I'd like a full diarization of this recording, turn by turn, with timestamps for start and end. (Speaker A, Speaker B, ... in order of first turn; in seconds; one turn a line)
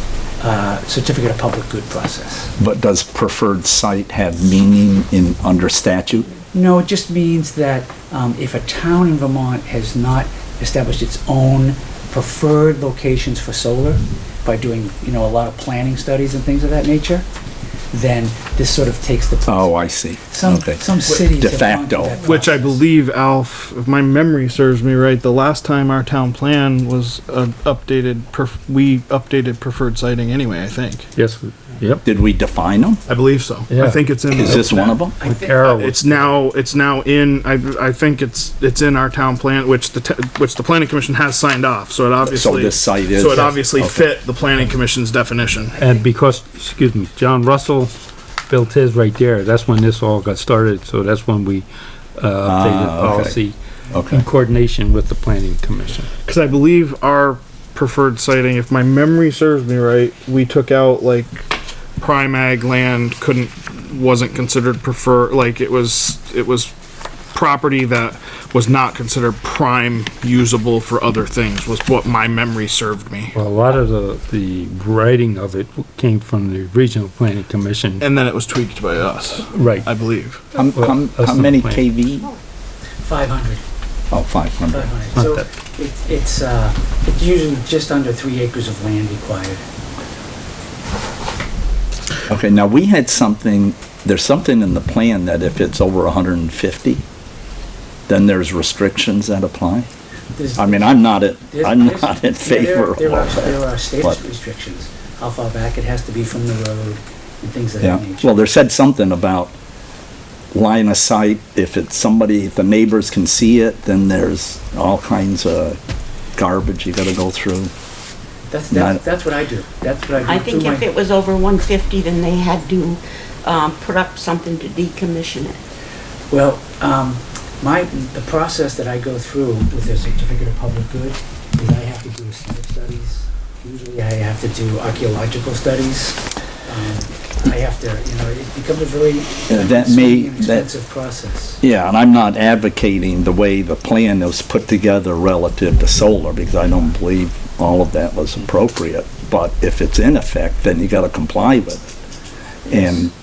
Speaker A: 0.4-2.5
Speaker B: 2.6-6.3
Speaker A: 6.5-17.2
Speaker A: 17.9-19.8
Speaker B: 19.5-22.2
Speaker A: 20.3-22.8
Speaker C: 22.2-31.1
Speaker D: 31.2-32.0
Speaker B: 32.0-33.0
Speaker C: 33.1-35.0
Speaker D: 33.7-36.2
Speaker B: 34.3-35.1
Speaker A: 34.5-35.6
Speaker C: 35.6-45.8
Speaker B: 42.2-44.1
Speaker D: 45.8-47.9
Speaker D: 48.5-51.7
Speaker D: 52.2-53.6
Speaker B: 52.5-53.4
Speaker B: 53.9-54.2
Speaker D: 54.1-56.1
Speaker C: 56.3-66.7
Speaker C: 67.3-73.3
Speaker D: 73.3-78.1
Speaker C: 78.0-80.4
Speaker D: 79.5-79.9
Speaker D: 80.5-81.9
Speaker B: 80.5-82.3
Speaker A: 83.0-83.6
Speaker B: 84.1-85.0
Speaker A: 84.7-89.6
Speaker D: 85.2-85.5
Speaker B: 92.3-97.0
Speaker B: 98.1-99.9
Speaker A: 100.4-108.4
Speaker B: 100.6-104.2
Speaker B: 107.8-109.5
Speaker B: 110.5-115.8
Speaker B: 116.4-117.7
Speaker A: 118.5-120.9
Speaker B: 118.7-119.0
Speaker E: 120.2-125.6
Speaker A: 126.3-141.6
Speaker B: 139.5-140.7
Speaker B: 141.6-151.8
Speaker B: 152.7-153.1